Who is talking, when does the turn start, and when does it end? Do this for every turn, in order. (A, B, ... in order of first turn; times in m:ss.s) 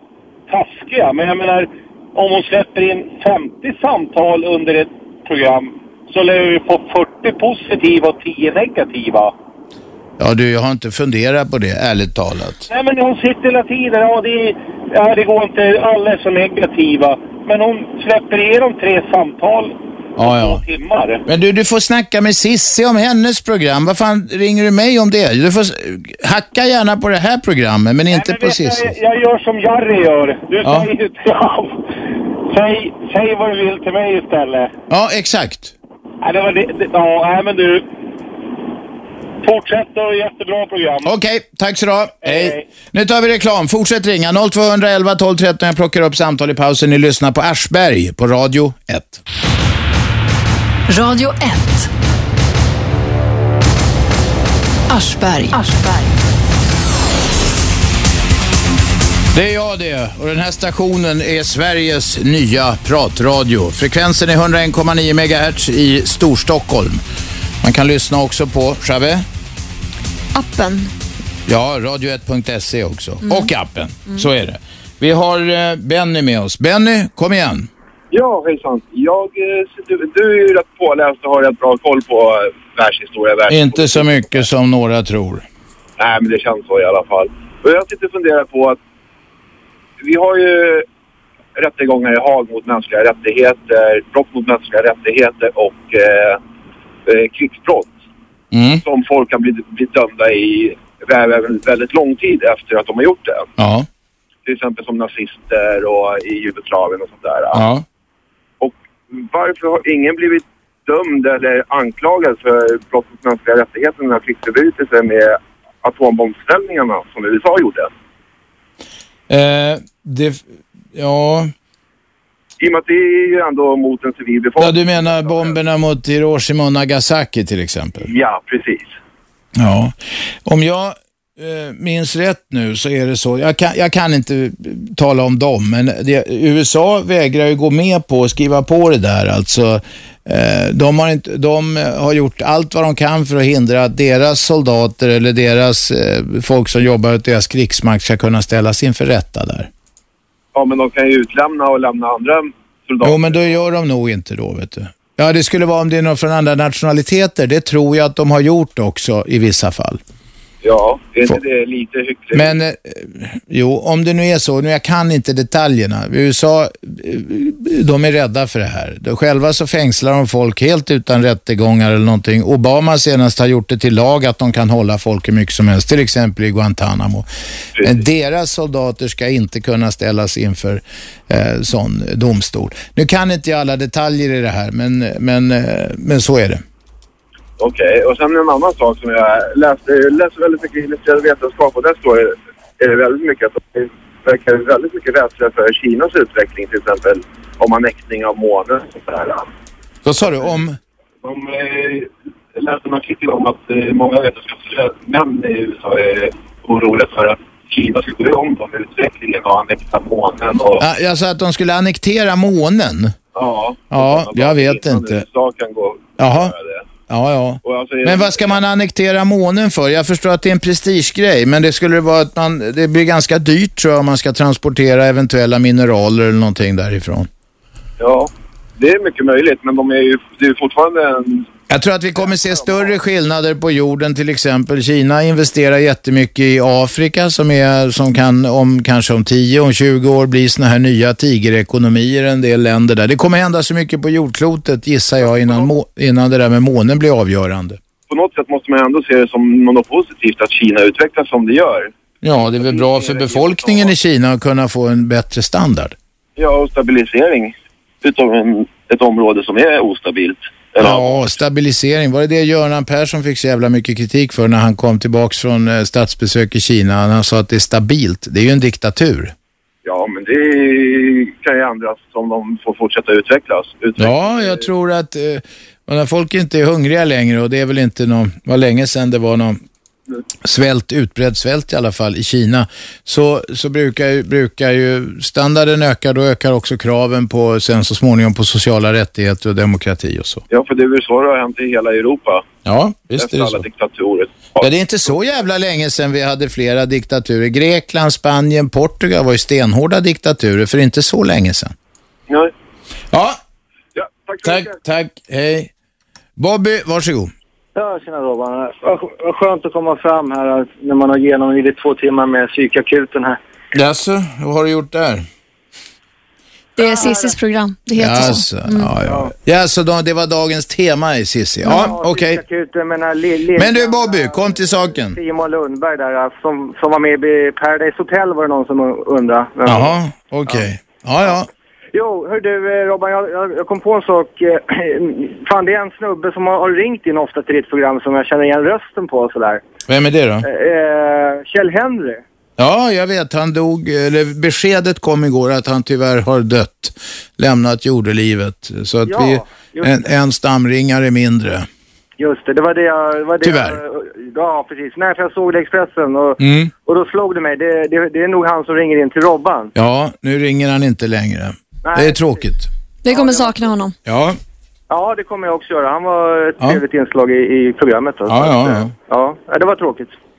0:00.5-0:09.3 A
0:10.2-0:12.7 B
0:12.7-0:21.2 A
0:20.2-0:20.6 B
0:21.3-0:28.9 B
0:28.1-0:31.8 A
0:32.5-0:34.7 A
0:34.9-0:35.7 B
0:36.2-0:37.8 A
0:39.4-0:41.1 A
0:41.0-0:49.2 B
0:42.2-0:42.6 A
0:50.9-0:51.9 C
0:54.9-0:56.2 C
0:59.3-1:07.0 B
1:07.6-1:09.2 B
1:10.4-1:10.9 D
1:11.5-1:17.7 B
1:18.1-1:24.4 E
1:23.5-1:25.4 B
1:26.0-1:28.8 E
1:30.0-1:30.8 E
1:31.6-1:36.4 E
1:37.1-1:37.9 E
1:38.5-1:38.8 B
1:38.8-1:43.5 E
1:43.6-1:43.9 B
1:44.5-1:47.6 E
1:47.5-1:47.8 B
1:48.6-1:57.9 E
1:59.3-2:01.5 B
2:02.6-2:05.5 E
2:04.6-2:08.1 B
2:08.0-2:09.0 E
2:09.6-2:29.7 B
2:30.5-2:33.5 E
2:33.0-2:40.0 B
2:40.6-2:42.6 E
2:42.3-2:57.3 B
2:57.8-3:06.6 B
3:07.6-3:19.5 E
3:20.0-3:20.8 B
3:21.2-3:30.8 E
3:30.8-3:33.2 B
3:33.4-3:36.9 E
3:33.9-3:35.2 B
3:36.2-3:36.5 B
3:37.1-3:47.3 B
3:37.6-3:38.6 E
3:48.0-3:51.5 E
3:51.7-4:07.8 B
3:52.5-3:52.8 E
4:05.3-4:05.7 E
4:08.1-4:11.9 E
4:12.2-4:16.0 B
4:12.6-4:13.9 E
4:16.4-4:21.3 E
4:20.8-4:29.3 B
4:29.8-4:34.6 E
4:34.0-4:39.6 B
4:40.4-4:50.4 B
4:50.5-4:52.4 E
4:52.6-4:53.6 B
4:53.2-4:55.1 E
4:54.6-5:01.7 B
5:03.1-5:03.4 B
5:04.0-5:04.7 E
5:04.4-5:05.7 B
5:06.4-5:07.3 B
5:07.8-5:13.4 F
5:13.7-5:15.3 B
5:16.8-5:18.9 D
5:16.8-5:17.4 F
5:18.0-5:22.4 B
5:19.0-5:19.3 F
5:21.6-5:21.9 D
5:21.7-5:29.9 F
5:23.6-5:25.2 B
5:29.7-5:31.5 B
5:31.9-5:39.6 F
5:39.9-5:40.4 B
5:40.4-5:42.2 F
5:42.6-5:51.7 B
5:49.1-5:50.0 F
5:52.2-5:59.7 F
5:53.4-5:53.8 B
5:56.4-5:56.7 B
5:59.8-6:02.7 B
6:01.8-6:02.5 F
6:03.0-6:04.0 D
6:03.1-6:03.7 F
6:04.1-6:04.4 B
6:04.9-6:10.2 F
6:08.3-6:08.9 B